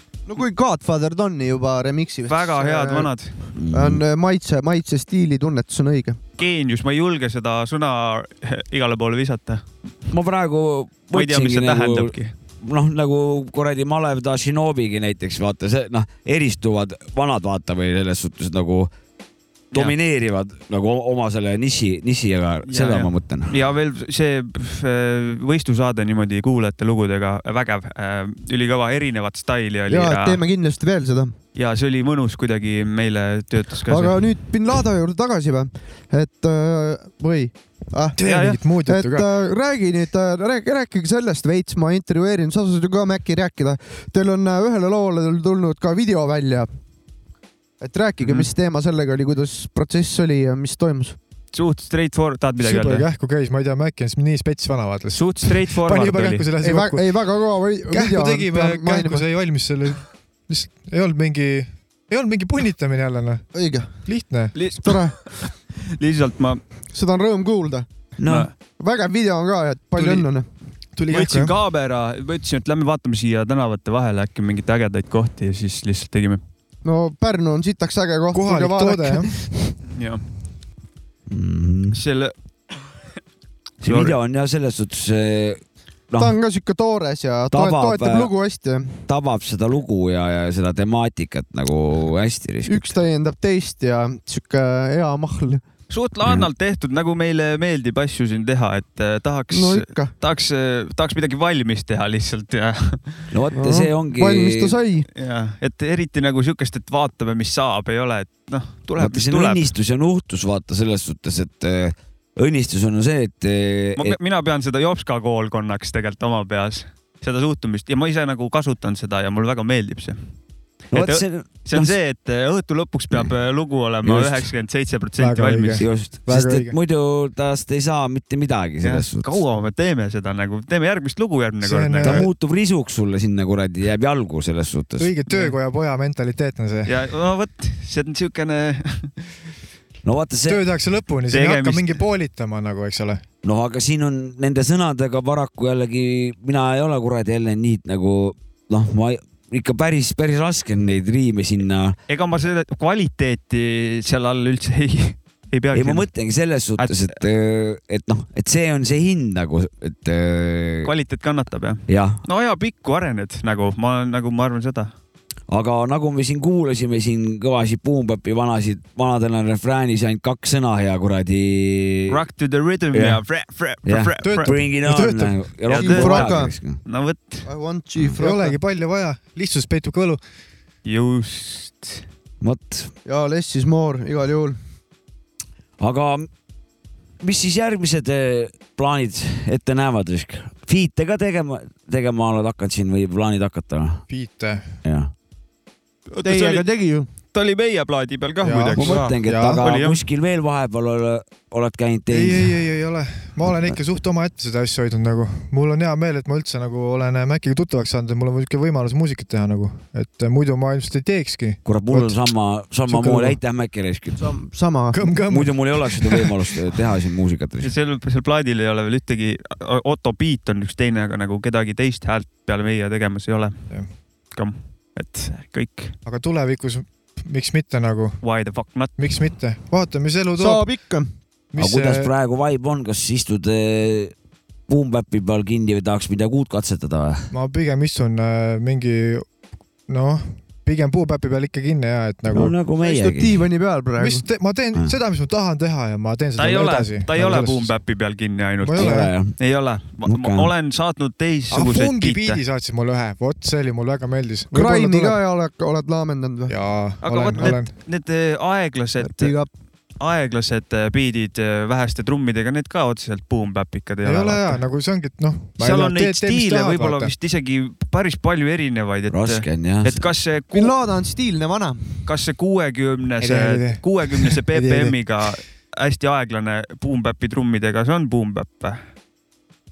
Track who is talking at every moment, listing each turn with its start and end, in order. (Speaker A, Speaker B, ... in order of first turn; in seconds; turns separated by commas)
Speaker A: 0.3-3.1, Speaker B: 2.3-3.4, Speaker C: 3.5-4.0, Speaker A: 3.7-6.2, Speaker B: 6.4-9.6, Speaker C: 10.1-18.9, Speaker B: 11.1-12.3, Speaker C: 19.7-23.5, Speaker B: 22.7-30.4, Speaker A: 29.9-31.3, Speaker B: 31.6-34.1, Speaker A: 33.9-38.2, Speaker D: 38.1-39.3, Speaker B: 38.2-38.6, Speaker A: 38.8-46.7, Speaker A: 47.8-51.2, Speaker B: 48.2-48.5, Speaker B: 51.5-53.0, Speaker D: 52.6-57.2, Speaker B: 55.1-56.5, Speaker A: 56.6-59.2, Speaker D: 57.9-63.5, Speaker A: 63.5-63.9, Speaker D: 64.0-64.5, Speaker B: 64.5-66.6, Speaker A: 64.8-65.2, Speaker A: 66.9-67.9, Speaker C: 68.2-68.5, Speaker B: 68.2-68.5, Speaker A: 68.8-70.5, Speaker D: 70.0-70.3, Speaker D: 70.9-71.5, Speaker B: 71.1-76.4, Speaker A: 76.8-79.7, Speaker D: 78.3-79.4, Speaker B: 79.9-80.2, Speaker C: 81.3-82.0, Speaker B: 81.9-82.3, Speaker C: 83.8-86.3, Speaker B: 83.8-84.1, Speaker A: 86.2-89.0, Speaker C: 87.5-88.3, Speaker C: 89.0-93.0, Speaker A: 92.7-95.6, Speaker B: 95.9-103.3, Speaker A: 99.5-100.1, Speaker C: 103.3-104.8, Speaker A: 103.5-105.1, Speaker B: 105.2-109.6, Speaker C: 109.0-114.2, Speaker B: 114.0-120.2, Speaker C: 120.9-122.0, Speaker B: 120.9-125.8, Speaker C: 124.0-124.5, Speaker D: 125.2-126.8, Speaker C: 125.8-129.4, Speaker B: 128.8-132.2, Speaker D: 131.6-132.3, Speaker C: 132.0-135.1, Speaker D: 135.0-136.9, Speaker B: 135.3-135.6, Speaker B: 136.8-139.3, Speaker C: 140.0-140.6, Speaker D: 140.4-143.2, Speaker B: 141.3-142.0, Speaker C: 143.4-152.0, Speaker B: 152.1-156.1, Speaker C: 155.7-160.9, Speaker B: 156.8-157.2, Speaker B: 160.8-164.9, Speaker C: 161.9-162.2, Speaker C: 165.5-172.2, Speaker B: 172.1-174.5, Speaker C: 172.9-173.2, Speaker C: 173.8-176.8, Speaker D: 174.2-175.4, Speaker B: 175.7-177.4, Speaker A: 175.8-176.5, Speaker A: 177.4-178.5, Speaker D: 178.2-180.2, Speaker B: 180.8-182.0, Speaker C: 182.4-182.9, Speaker A: 183.1-184.6, Speaker C: 185.8-186.3, Speaker C: 187.2-194.0, Speaker D: 194.1-194.7, Speaker C: 194.8-195.1, Speaker B: 196.1-196.7, Speaker A: 196.2-197.1, Speaker B: 197.3-200.0, Speaker D: 198.4-199.6, Speaker C: 198.8-202.5, Speaker D: 202.1-212.2, Speaker C: 211.7-214.3, Speaker D: 212.9-213.4, Speaker A: 214.2-215.1, Speaker D: 214.9-216.3, Speaker C: 215.3-217.7, Speaker B: 217.6-223.6, Speaker B: 224.3-225.9, Speaker D: 226.1-228.2, Speaker B: 228.2-228.9, Speaker D: 229.0-230.7, Speaker A: 230.4-231.1, Speaker D: 231.5-232.1, Speaker C: 231.6-234.1, Speaker C: 234.7-237.3, Speaker D: 237.3-239.3, Speaker D: 239.9-242.5, Speaker C: 242.3-243.5, Speaker A: 242.8-244.2, Speaker D: 244.0-247.8, Speaker B: 246.4-252.4, Speaker D: 248.6-249.1, Speaker C: 248.8-249.4, Speaker C: 250.0-250.5, Speaker D: 251.5-255.2, Speaker A: 254.5-256.5, Speaker D: 256.5-257.7, Speaker B: 257.0-259.4, Speaker A: 259.0-259.5, Speaker B: 260.0-264.6, Speaker D: 264.0-267.1, Speaker B: 265.6-270.7, Speaker C: 269.1-270.0, Speaker A: 270.5-272.0, Speaker B: 272.0-278.8, Speaker D: 273.2-274.9